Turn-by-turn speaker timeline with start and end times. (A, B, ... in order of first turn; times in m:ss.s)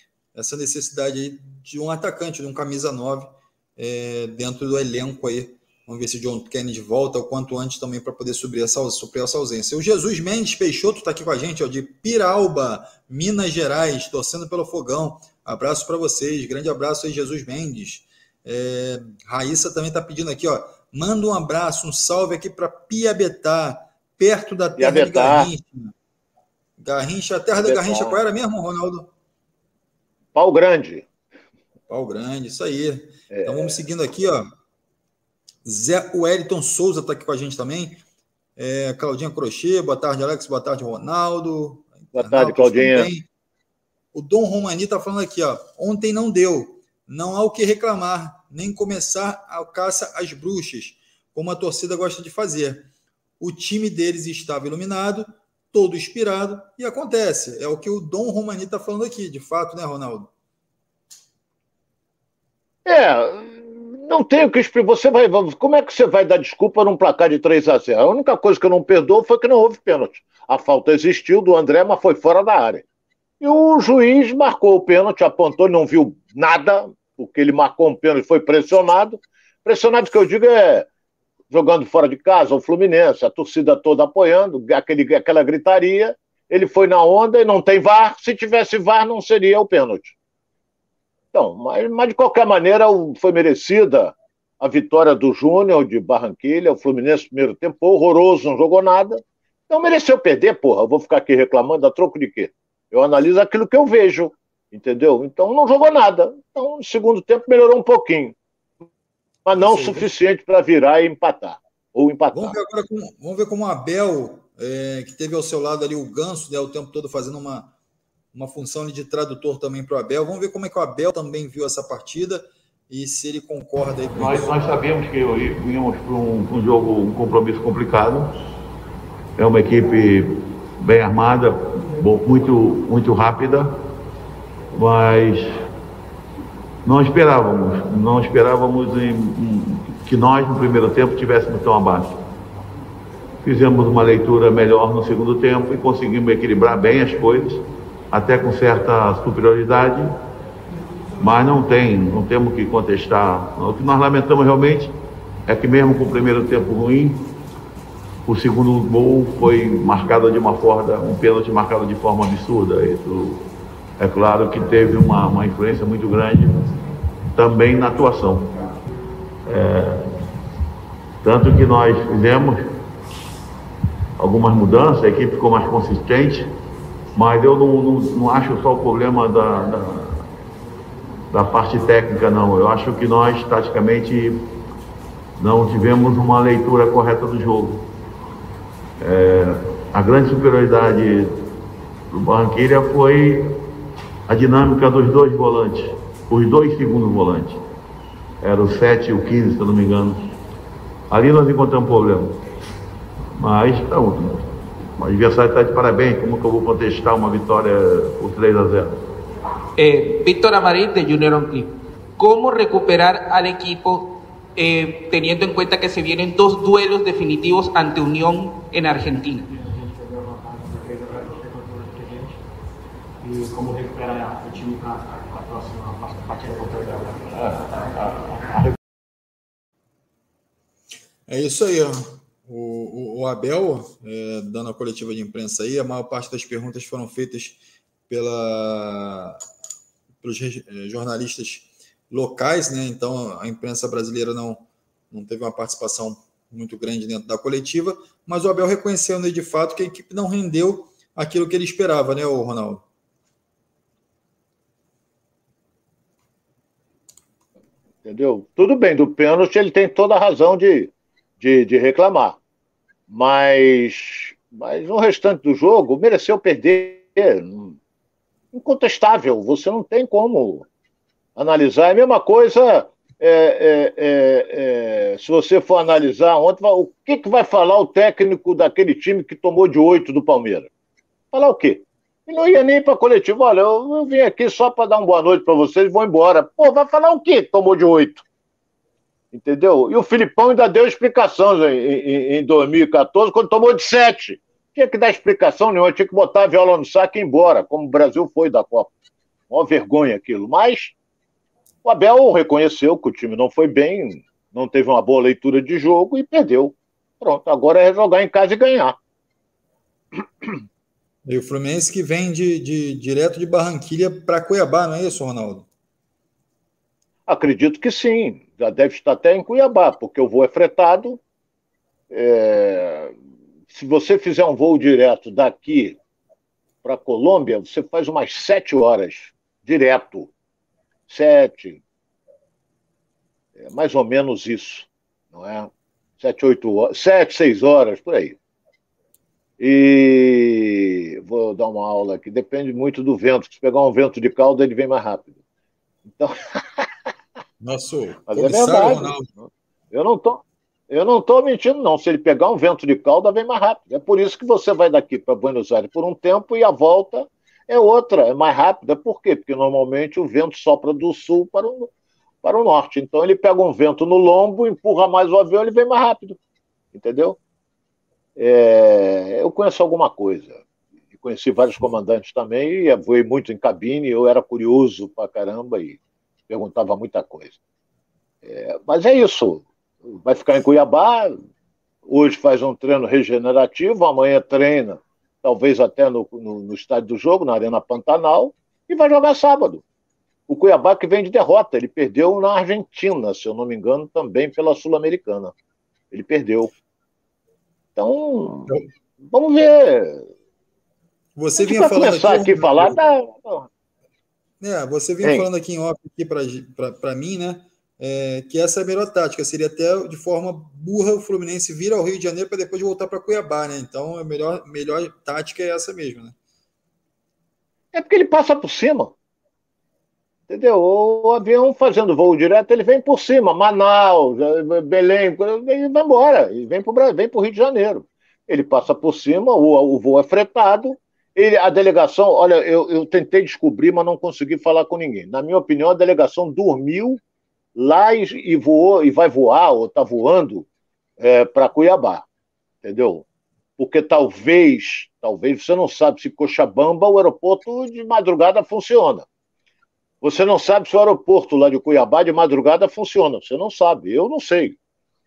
0:00.3-0:25.9 A
0:24.8-0:25.5 B
0:26.8-0:29.1 A
0:27.6-0:28.2 B
0:30.3-0:31.1 B
0:31.9-0:34.4 A
0:33.3-0:33.8 B
0:35.6-0:38.0 A
0:38.6-0:43.2 A
0:42.1-0:43.1 B
0:44.1-0:52.9 A
0:53.4-1:00.3 A
1:02.8-1:12.8 B
1:13.4-1:20.9 B
1:21.5-1:30.1 B
1:31.3-1:48.3 B
1:49.4-1:52.6 B
1:49.6-1:50.1 A
1:52.3-1:57.7 A
1:58.3-2:04.6 A
2:04.2-2:08.3 C
2:09.4-2:13.7 C
2:14.7-2:15.5 C
2:16.8-2:22.2 C
2:23.4-2:30.1 C
2:31.2-2:34.9 C
2:35.5-2:37.2 C
2:38.2-2:43.4 C
2:44.0-2:46.6 C
2:47.3-2:48.6 C
2:49.4-2:50.1 C
2:51.2-2:52.7 C
2:54.2-2:56.5 C
2:57.2-3:00.2 C
3:01.3-3:04.4 C
3:05.4-3:07.8 C
3:09.0-3:11.4 C
3:12.1-3:13.5 C
3:14.3-3:17.6 C
3:18.4-3:20.2 C
3:21.1-3:22.4 C
3:23.4-3:29.0 C
3:29.8-3:39.5 D
3:39.5-3:42.3 E
3:43.2-3:48.6 E
3:51.3-3:59.4 A
4:00.2-4:12.8 A
4:18.0-4:22.4 B
4:23.1-4:27.8 B
4:28.5-4:30.6 B
4:31.4-4:40.7 B
4:41.3-4:48.2 B
4:49.3-4:58.9 B
4:59.5-5:01.0 B
5:01.8-5:09.0 B
5:11.2-5:15.7 A
5:17.3-5:21.2 B
5:22.1-5:23.1 B
5:23.7-5:26.0 B
5:26.8-5:30.3 B
5:31.1-5:31.8 B
5:33.6-5:38.4 B
5:39.6-5:45.3 B
5:46.1-5:46.9 B
5:47.6-5:49.3 A
5:48.3-6:01.9 B
6:02.4-6:06.4 B
6:06.9-6:07.4 B
6:08.4-6:10.6 B
6:11.1-6:17.6 B
6:18.4-6:21.4 B
6:22.0-6:29.8 B
6:30.5-6:35.5 B
6:36.1-6:36.7 B
6:38.0-6:38.7 B
6:39.3-6:40.2 B
6:41.4-6:43.0 A
6:41.6-6:43.7 B
6:44.6-6:56.3 A
6:45.2-6:45.5 B
6:57.9-6:59.1 B
7:00.5-7:17.2 B
7:17.8-7:20.7 B
7:21.2-7:22.2 B
7:22.8-7:23.2 B
7:23.8-7:29.2 B
7:30.2-7:34.8 B